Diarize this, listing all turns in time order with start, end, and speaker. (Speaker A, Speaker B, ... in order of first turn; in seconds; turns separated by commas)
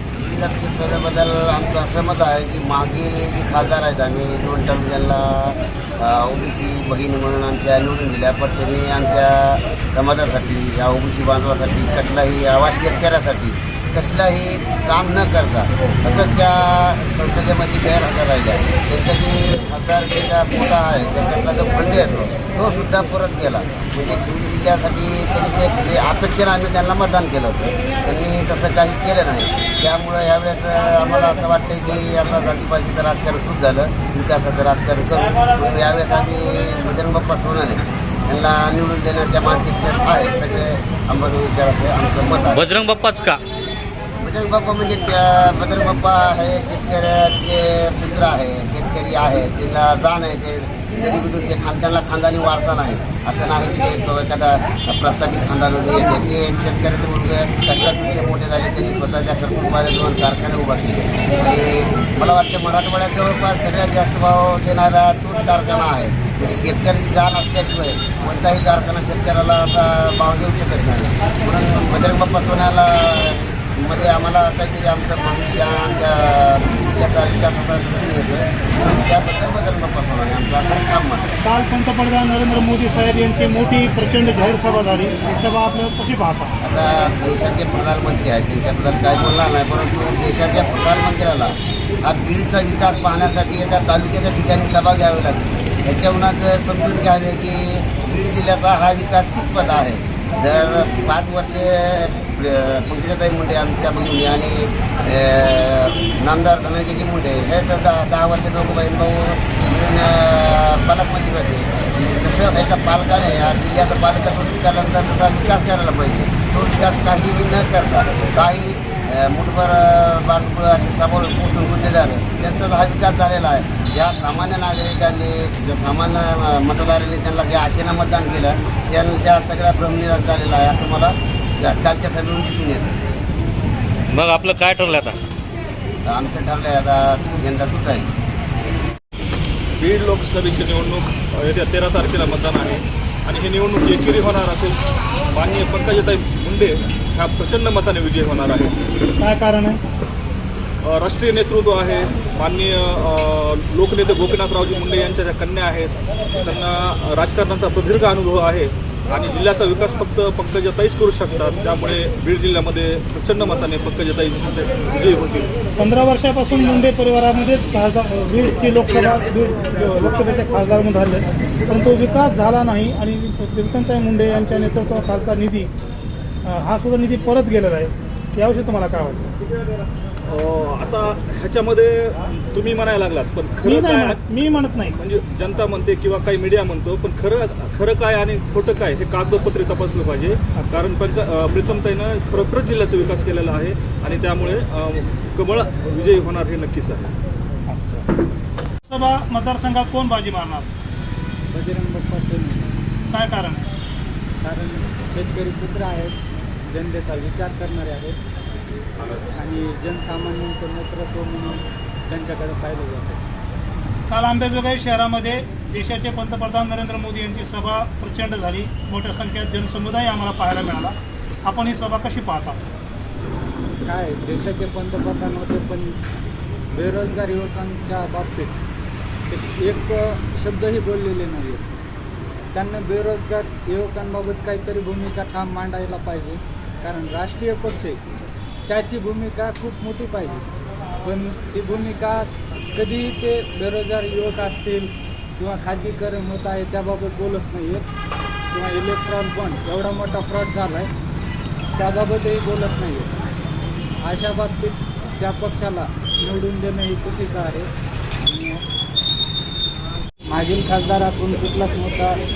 Speaker A: 0.2-42.7, Speaker B: 42.5-43.4, Speaker A: 44.2-81.3, Speaker C: 81.4-86.5, Speaker A: 86.6-132.9, Speaker B: 134.1-135.2, Speaker A: 136.1-138.1, Speaker D: 139.8-144.8, Speaker D: 145.3-148.8, Speaker C: 149.2-149.8, Speaker D: 150.8-165.5, Speaker C: 165.8-175.7, Speaker C: 176.4-179.3, Speaker D: 180.3-184.2, Speaker C: 183.7-184.9, Speaker D: 184.9-197.1, Speaker C: 197.7-198.1, Speaker C: 198.9-200.7, Speaker E: 201.5-202.7, Speaker C: 203.1-203.6, Speaker E: 204.4-208.2, Speaker E: 209.3-213.2, Speaker C: 214.1-220.9, Speaker C: 221.4-222.6, Speaker E: 223.8-226.0, Speaker E: 226.7-228.6, Speaker E: 229.3-231.8, Speaker E: 232.5-238.0, Speaker E: 238.7-240.4, Speaker E: 241.0-247.9, Speaker E: 248.5-250.9, Speaker E: 251.8-253.1, Speaker E: 254.0-257.7, Speaker E: 258.2-258.6, Speaker E: 260.3-262.2